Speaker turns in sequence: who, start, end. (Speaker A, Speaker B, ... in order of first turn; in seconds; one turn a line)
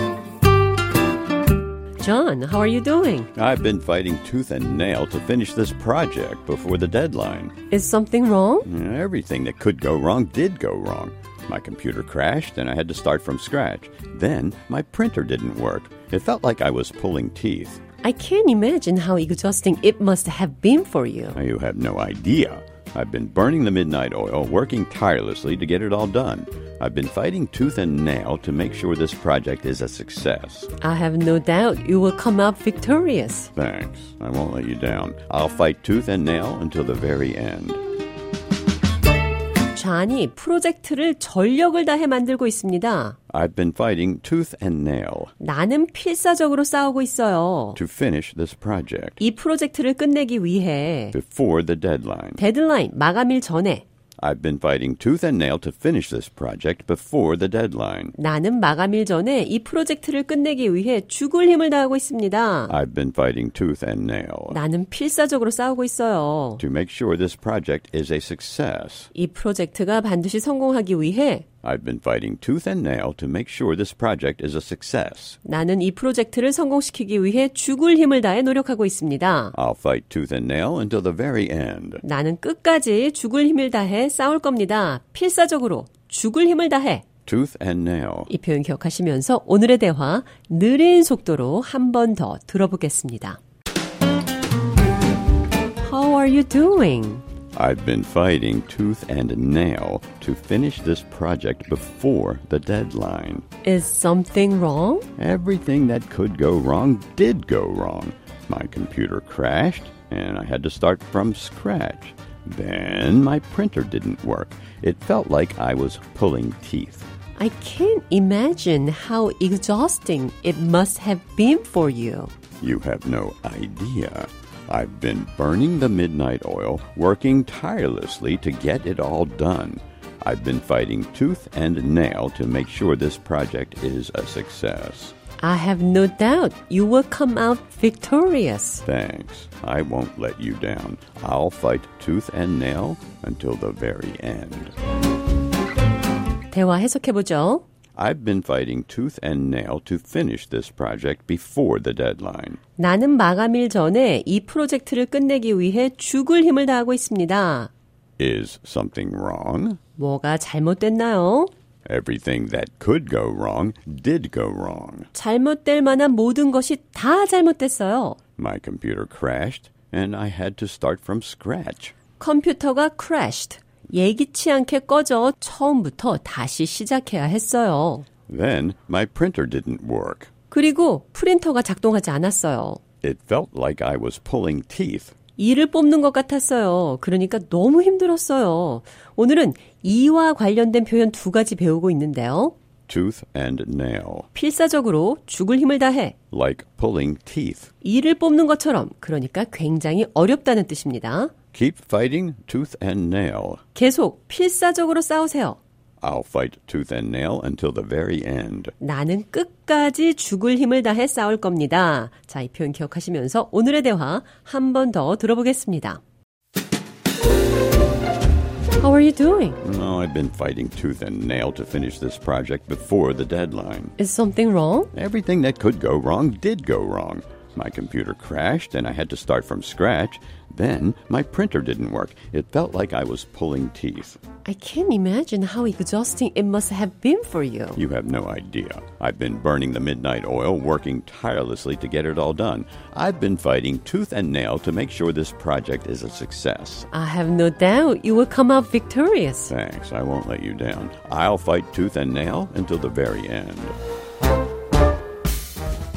Speaker A: 2.0-3.3
Speaker B: 3.4-7.5
Speaker A: 7.7-8.7
Speaker B: 8.7-17.8
Speaker A: 18.0-21.4
Speaker B: 21.4-30.7
Speaker A: 30.8-33.5
Speaker B: 33.6-37.8
Speaker A: 39.7-43.2
Speaker B: 43.3-45.3
Speaker A: 45.4-47.8
Speaker B: 47.8-49.2
Speaker A: 49.2-51.1
Speaker B: 51.1-52.4
Speaker A: 52.4-53.8
Speaker B: 54.2-58.1
Speaker A: 58.2-62.7
Speaker B: 62.7-64.6
Speaker A: 64.5-66.6
Speaker B: 66.6-69.1
Speaker A: 69.1-71.5
Speaker B: 71.6-75.4
Speaker A: 75.4-79.5
Speaker B: 79.5-82.0
Speaker A: 82.0-87.0
Speaker B: 87.3-88.3
Speaker A: 88.3-93.4
Speaker A: 95.8-97.2
Speaker B: 97.5-103.5
Speaker A: 103.6-105.1
Speaker B: 105.2-117.1
Speaker A: 117.4-122.3
Speaker B: 122.6-135.2
Speaker A: 135.4-138.8
Speaker B: 138.9-144.7
Speaker A: 146.5-147.6
Speaker B: 148.0-152.6
Speaker A: 152.8-157.7
Speaker B: 158.2-159.8
Speaker A: 160.0-161.5
Speaker B: 161.9-165.1
Speaker A: 165.1-168.2
Speaker B: 168.4-171.9
Speaker A: 172.2-178.1
Speaker B: 178.3-180.3
Speaker A: 180.5-182.8
Speaker B: 183.0-185.1
Speaker A: 185.4-192.6
Speaker B: 192.9-194.3
Speaker A: 194.3-196.2
Speaker B: 196.3-197.7
Speaker A: 197.8-201.3
Speaker B: 201.5-203.6
Speaker A: 203.8-205.6
Speaker B: 206.0-208.7
Speaker A: 208.8-216.0
Speaker A: 218.8-219.6
Speaker B: 219.6-223.9
Speaker A: 224.0-224.9
Speaker B: 224.9-234.2
Speaker A: 234.4-237.8
Speaker B: 237.8-246.9
Speaker A: 246.9-249.5
Speaker B: 249.5-253.8